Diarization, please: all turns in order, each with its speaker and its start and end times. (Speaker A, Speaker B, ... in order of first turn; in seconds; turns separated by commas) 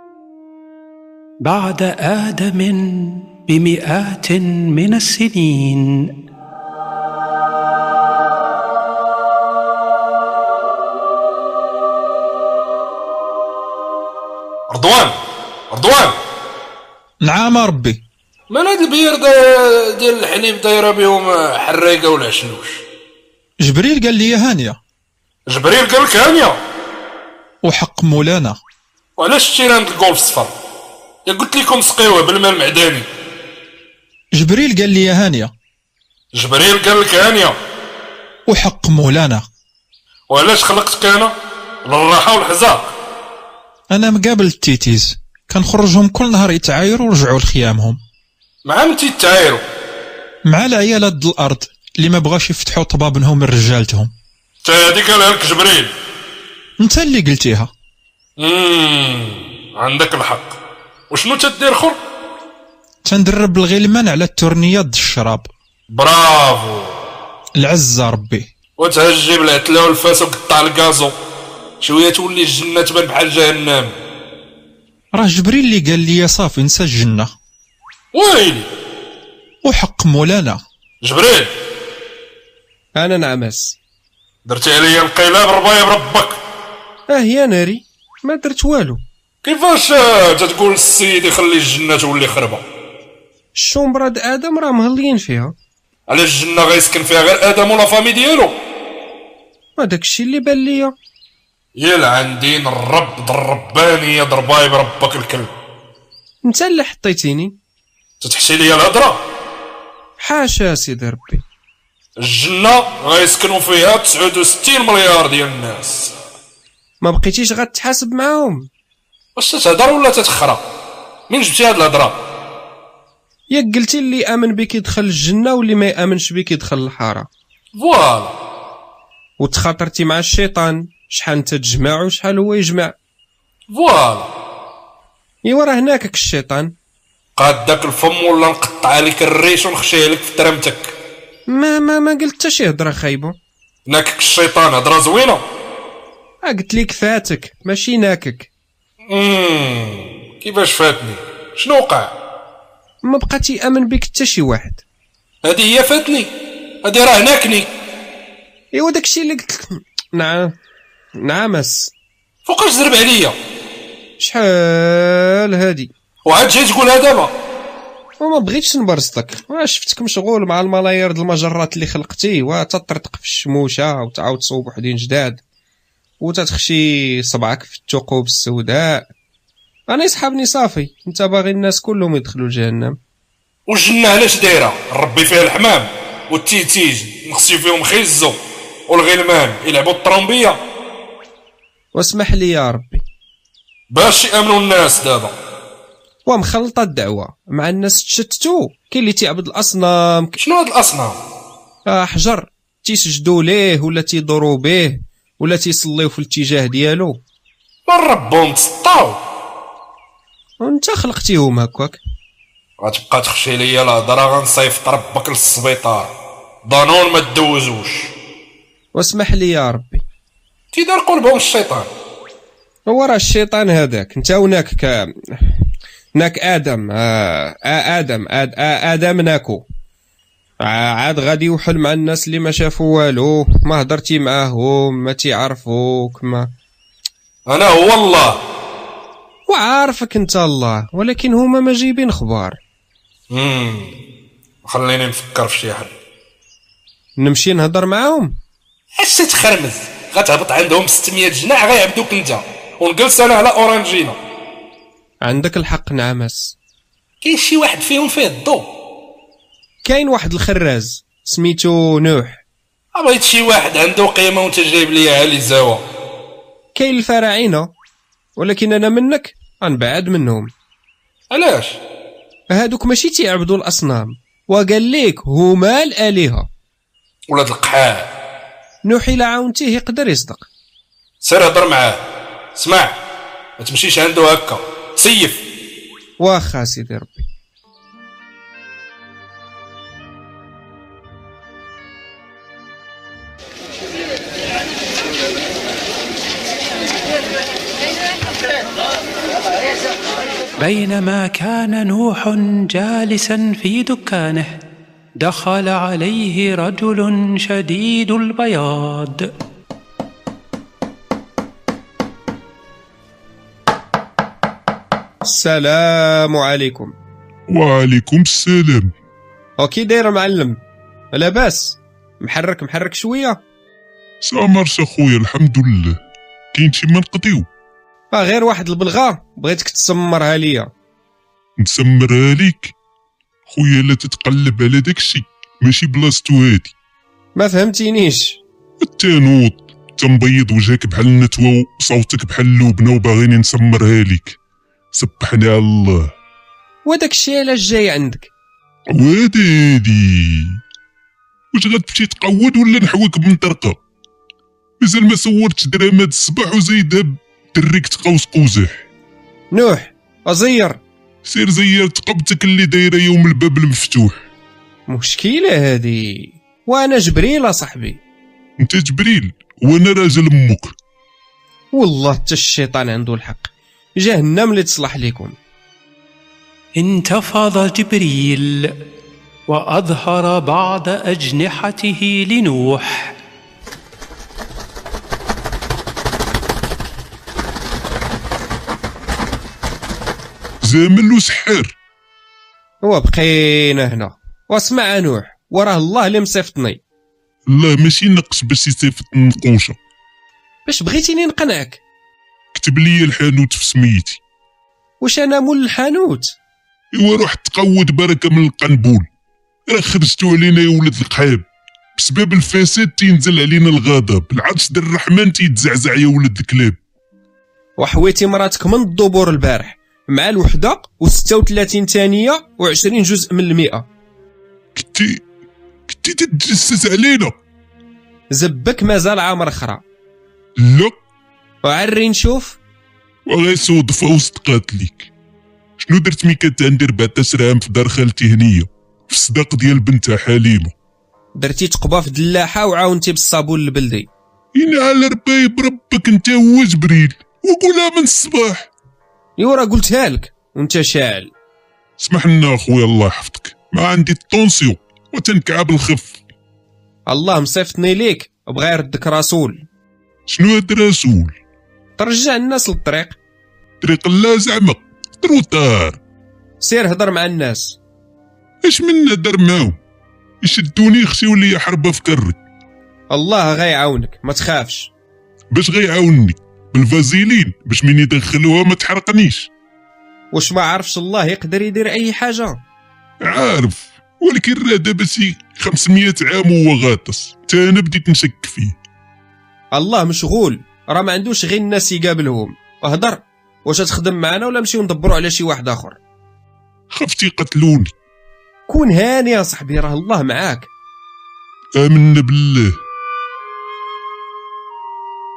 Speaker A: 1.4-6.1, Speaker B: 14.7-15.2, Speaker B: 15.7-16.2, Speaker C: 17.2-18.0, Speaker B: 18.5-22.8, Speaker C: 23.6-24.8, Speaker B: 25.5-26.6, Speaker C: 27.6-28.6, Speaker B: 29.2-30.5, Speaker B: 31.2-33.1, Speaker C: 34.3-35.5, Speaker B: 36.3-37.5, Speaker C: 38.5-39.4, Speaker B: 40.3-41.3, Speaker B: 41.8-42.9, Speaker C: 43.9-48.0, Speaker B: 48.6-49.6, Speaker C: 50.5-54.1, Speaker B: 54.6-55.9, Speaker C: 56.8-57.7, Speaker B: 58.4-60.5, Speaker B: 61.1-62.0, Speaker C: 63.0-65.5, Speaker B: 65.9-67.0, Speaker C: 67.6-68.5, Speaker B: 68.8-71.1, Speaker B: 71.8-73.9, Speaker C: 75.1-77.3, Speaker B: 78.1-78.7, Speaker C: 79.6-80.6, Speaker B: 81.0-81.5, Speaker D: 83.0-83.8, Speaker B: 84.5-86.4, Speaker D: 87.1-89.0, Speaker B: 89.4-92.6, Speaker D: 93.5-95.5, Speaker B: 96.1-98.5, Speaker D: 99.8-100.9, Speaker B: 101.8-105.5, Speaker D: 106.4-107.5, Speaker B: 108.2-109.2, Speaker D: 110.2-111.4, Speaker B: 112.2-116.1, Speaker D: 117.0-118.7, Speaker B: 119.3-120.6, Speaker B: 121.3-122.2, Speaker D: 123.5-127.3, Speaker B: 127.8-128.3, Speaker D: 129.4-132.9, Speaker B: 133.7-134.3, Speaker D: 135.4-136.7, Speaker B: 137.4-140.9, Speaker D: 141.5-143.3, Speaker B: 143.9-145.4, Speaker D: 146.4-148.5, Speaker B: 149.1-152.1, Speaker D: 153.0-154.8, Speaker B: 155.4-156.3, Speaker B: 156.8-157.7, Speaker D: 158.7-160.5, Speaker D: 161.2-161.9, Speaker B: 162.4-163.3, Speaker D: 164.2-165.9, Speaker B: 166.2-167.3, Speaker D: 168.2-175.4, Speaker D: 176.2-179.1, Speaker D: 179.9-183.0, Speaker B: 183.7-188.4, Speaker B: 188.9-190.6, Speaker D: 191.9-193.0, Speaker B: 193.9-195.3, Speaker D: 196.2-200.3, Speaker B: 200.4-201.2, Speaker D: 201.9-207.2, Speaker B: 207.9-209.2, Speaker D: 210.6-212.0, Speaker B: 212.8-216.1, Speaker B: 216.6-218.1, Speaker D: 218.9-220.0, Speaker B: 220.7-221.9, Speaker D: 222.9-225.5, Speaker D: 226.2-229.6, Speaker D: 230.6-236.5, Speaker B: 237.5-238.4, Speaker D: 239.5-242.6, Speaker B: 243.3-243.9, Speaker B: 244.6-245.9, Speaker D: 247.2-248.3, Speaker B: 249.0-254.2, Speaker D: 255.2-256.6, Speaker B: 257.2-258.6, Speaker D: 259.8-262.4, Speaker B: 262.9-265.8, Speaker D: 266.7-267.7, Speaker D: 268.4-270.5, Speaker B: 271.3-271.8, Speaker D: 272.5-276.5, Speaker B: 277.3-278.1, Speaker D: 278.8-280.5, Speaker B: 281.2-282.0, Speaker B: 282.5-283.0, Speaker B: 283.6-285.4, Speaker D: 286.2-287.3, Speaker A: 300.6-304.6, Speaker A: 305.2-309.3, Speaker D: 315.2-316.9, Speaker E: 317.5-318.9, Speaker D: 319.6-320.6, Speaker D: 321.1-323.4, Speaker E: 324.2-326.0, Speaker E: 326.5-327.4, Speaker D: 328.1-330.7, Speaker E: 331.6-332.7, Speaker E: 333.5-336.7, Speaker D: 337.4-338.4, Speaker E: 338.8-344.4, Speaker E: 344.9-346.1, Speaker D: 346.9-348.3, Speaker E: 348.9-350.6, Speaker E: 351.5-353.8, Speaker E: 354.8-358.7, Speaker D: 359.5-360.8, Speaker E: 361.2-364.1, Speaker D: 364.9-368.0, Speaker E: 368.6-370.7, Speaker D: 371.7-375.3, Speaker A: 376.8-378.7, Speaker A: 379.5-383.1, Speaker E: 390.6-391.7, Speaker D: 392.8-396.8, Speaker E: 397.5-399.8, Speaker D: 400.6-401.8, Speaker E: 402.5-404.2, Speaker D: 405.0-406.3, Speaker E: 406.9-409.1, Speaker E: 409.7-411.4, Speaker E: 411.9-416.8, Speaker D: 417.8-423.9, Speaker E: 424.7-425.2, Speaker E: 425.9-427.4, Speaker D: 428.3-429.8, Speaker E: 430.6-431.0, Speaker D: 431.6-432.6, Speaker E: 433.3-435.1, Speaker E: 435.8-440.7, Speaker D: 441.4-444.1, Speaker E: 444.5-448.6, Speaker D: 449.4-451.3, Speaker E: 452.0-456.1, Speaker D: 457.1-459.6, Speaker E: 460.3-461.3, Speaker D: 462.0-463.1, Speaker E: 463.8-466.0, Speaker D: 466.6-467.8, Speaker E: 468.6-469.7, Speaker E: 470.4-472.4, Speaker D: 473.1-474.9, Speaker E: 475.5-479.5, Speaker D: 480.3-482.6, Speaker E: 483.2-488.7, Speaker D: 489.7-496.0, Speaker E: 496.9-497.9, Speaker D: 498.7-500.7, Speaker E: 501.8-502.7